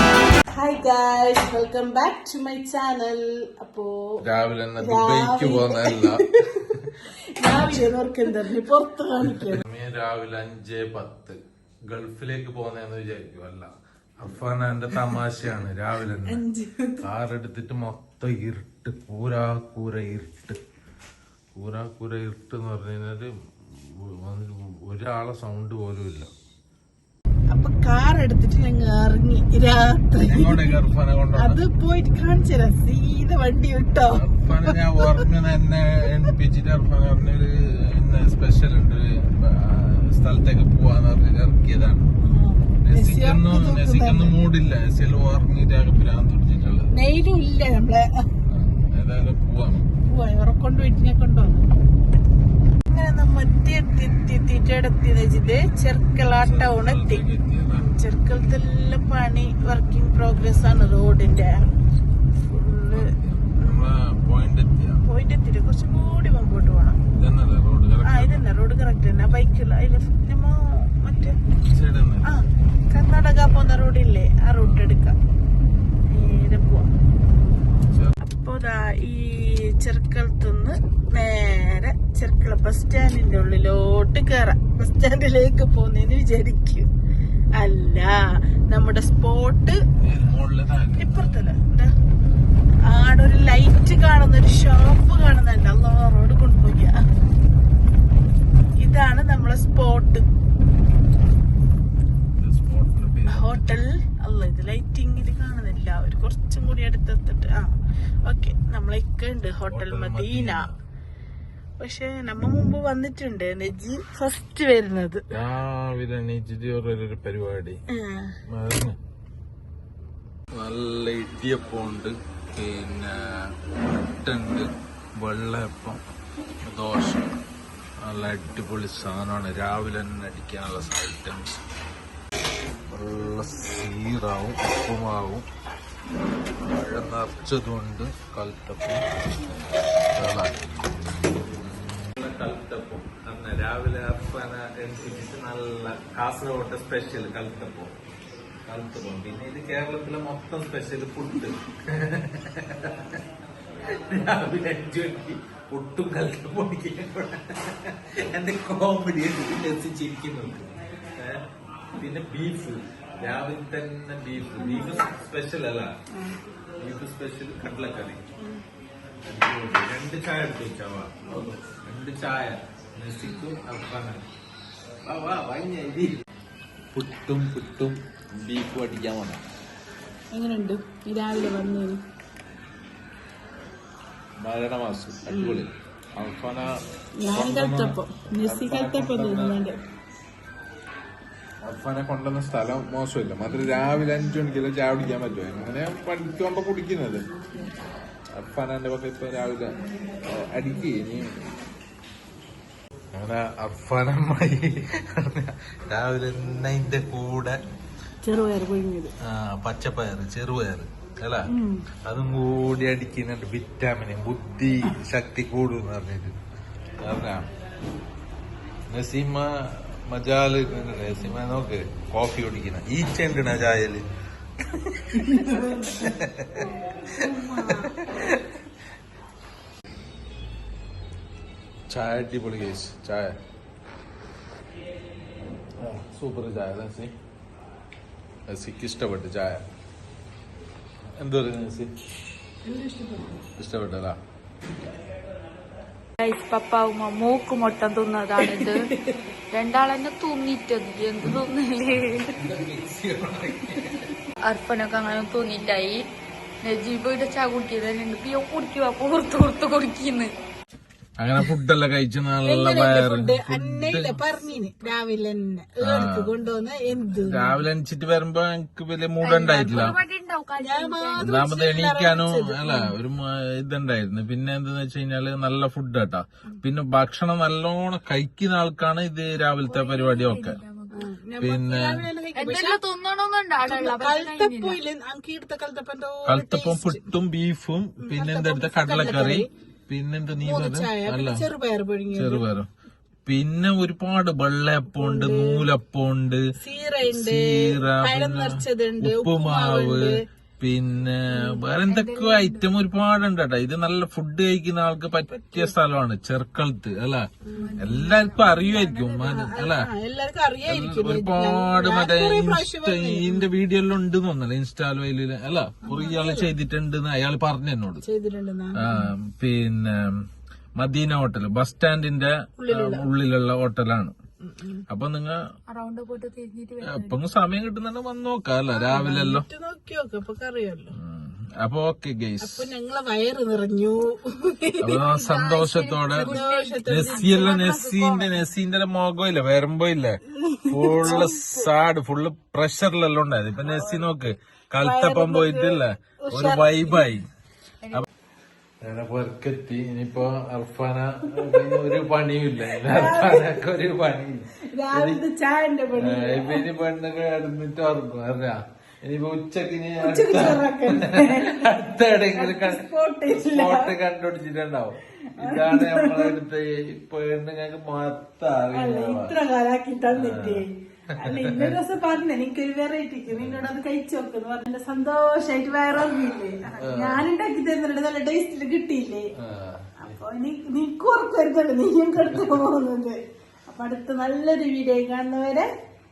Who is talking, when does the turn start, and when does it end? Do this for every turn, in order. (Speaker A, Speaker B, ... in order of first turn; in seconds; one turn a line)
Speaker A: 0.5-4.2
Speaker B: 4.2-6.8
Speaker A: 4.8-9.6
Speaker B: 7.5-7.9
Speaker B: 9.2-16.4
Speaker A: 16.2-17.1
Speaker B: 17.0-20.6
Speaker B: 21.5-26.3
Speaker A: 27.5-30.7
Speaker B: 30.2-31.6
Speaker A: 31.3-35.2
Speaker B: 34.1-42.1
Speaker A: 42.2-44.3
Speaker B: 42.8-46.9
Speaker A: 46.9-48.2
Speaker B: 48.4-49.9
Speaker A: 50.0-51.7
Speaker A: 52.9-61.7
Speaker B: 56.4-57.8
Speaker A: 62.5-63.9
Speaker B: 62.9-65.0
Speaker A: 65.0-67.0
Speaker B: 67.1-68.4
Speaker A: 68.0-71.4
Speaker B: 71.6-72.2
Speaker A: 72.2-75.1
Speaker B: 74.6-75.0
Speaker A: 76.1-76.9
Speaker B: 77.8-78.2
Speaker A: 78.2-86.9
Speaker A: 87.6-88.1
Speaker A: 88.7-89.8
Speaker B: 90.0-91.3
Speaker A: 91.0-91.9
Speaker A: 92.9-97.0
Speaker A: 98.8-100.3
Speaker B: 102.3-103.7
Speaker A: 103.3-107.7
Speaker A: 108.2-110.7
Speaker B: 109.7-110.8
Speaker A: 111.8-115.2
Speaker B: 115.3-117.8
Speaker A: 117.9-118.4
Speaker B: 118.5-119.0
Speaker B: 120.6-126.0
Speaker B: 126.6-127.3
Speaker B: 128.0-131.6
Speaker B: 132.9-135.4
Speaker B: 136.6-139.1
Speaker B: 140.1-140.5
Speaker B: 142.1-147.9
Speaker B: 148.7-153.2
Speaker B: 153.9-161.4
Speaker B: 162.0-165.9
Speaker A: 164.6-165.0
Speaker A: 166.1-166.4
Speaker B: 166.8-168.2
Speaker B: 169.2-174.2
Speaker A: 171.2-171.5
Speaker B: 175.1-176.2
Speaker B: 176.9-179.4
Speaker A: 180.3-182.0
Speaker B: 184.4-186.7
Speaker A: 185.3-185.6
Speaker A: 187.2-189.8
Speaker B: 187.3-189.6
Speaker B: 191.6-197.2
Speaker B: 198.3-199.7
Speaker B: 200.3-201.3
Speaker B: 203.1-207.6
Speaker A: 208.2-209.1
Speaker B: 209.2-211.4
Speaker A: 211.5-211.8
Speaker B: 212.1-216.3
Speaker B: 217.0-217.5
Speaker B: 218.9-224.0
Speaker B: 224.6-225.3
Speaker A: 225.1-226.1
Speaker B: 225.9-226.7
Speaker C: 227.2-227.9
Speaker B: 227.6-228.5
Speaker B: 231.9-233.4
Speaker B: 235.8-237.1
Speaker B: 238.5-239.6
Speaker B: 241.2-241.9
Speaker A: 242.6-243.4
Speaker B: 243.6-244.2
Speaker C: 246.2-248.9
Speaker B: 248.4-248.7
Speaker C: 249.5-252.5
Speaker B: 252.3-254.1
Speaker C: 254.4-256.0
Speaker C: 256.6-260.3
Speaker B: 261.2-264.2
Speaker A: 262.4-267.6
Speaker B: 265.8-266.3
Speaker B: 267.0-270.0
Speaker C: 269.2-271.3
Speaker A: 270.6-272.9
Speaker B: 271.2-280.6
Speaker C: 279.6-281.1
Speaker A: 280.9-282.8
Speaker B: 281.4-282.1
Speaker C: 282.3-284.8
Speaker A: 283.6-287.0
Speaker B: 286.2-291.5
Speaker A: 288.0-289.5
Speaker A: 290.4-292.4
Speaker B: 292.1-292.7
Speaker B: 293.2-296.4
Speaker A: 294.9-295.7
Speaker A: 296.6-300.2
Speaker B: 297.0-309.9
Speaker C: 301.8-302.7
Speaker A: 305.3-305.7
Speaker C: 307.6-309.4
Speaker A: 309.3-313.5
Speaker B: 310.6-318.0
Speaker A: 315.8-316.5
Speaker A: 318.0-319.1
Speaker B: 318.8-320.2
Speaker B: 320.8-324.1
Speaker A: 322.6-323.0
Speaker A: 324.4-324.8
Speaker B: 324.9-325.4
Speaker C: 325.7-327.2
Speaker B: 326.8-329.4
Speaker A: 328.7-330.9
Speaker B: 331.0-332.7
Speaker A: 332.4-335.0
Speaker B: 334.8-347.2
Speaker C: 334.9-338.5
Speaker A: 336.2-337.7
Speaker A: 340.4-341.7
Speaker C: 343.6-344.1
Speaker A: 344.8-347.0
Speaker B: 348.8-355.2
Speaker A: 351.5-351.8
Speaker A: 352.6-353.6
Speaker A: 354.7-356.6
Speaker B: 356.0-369.3
Speaker A: 360.0-363.9
Speaker A: 365.4-366.4
Speaker A: 368.7-379.3
Speaker B: 370.1-371.8
Speaker B: 373.3-373.7
Speaker B: 376.8-377.2
Speaker B: 379.4-380.1
Speaker A: 380.0-385.7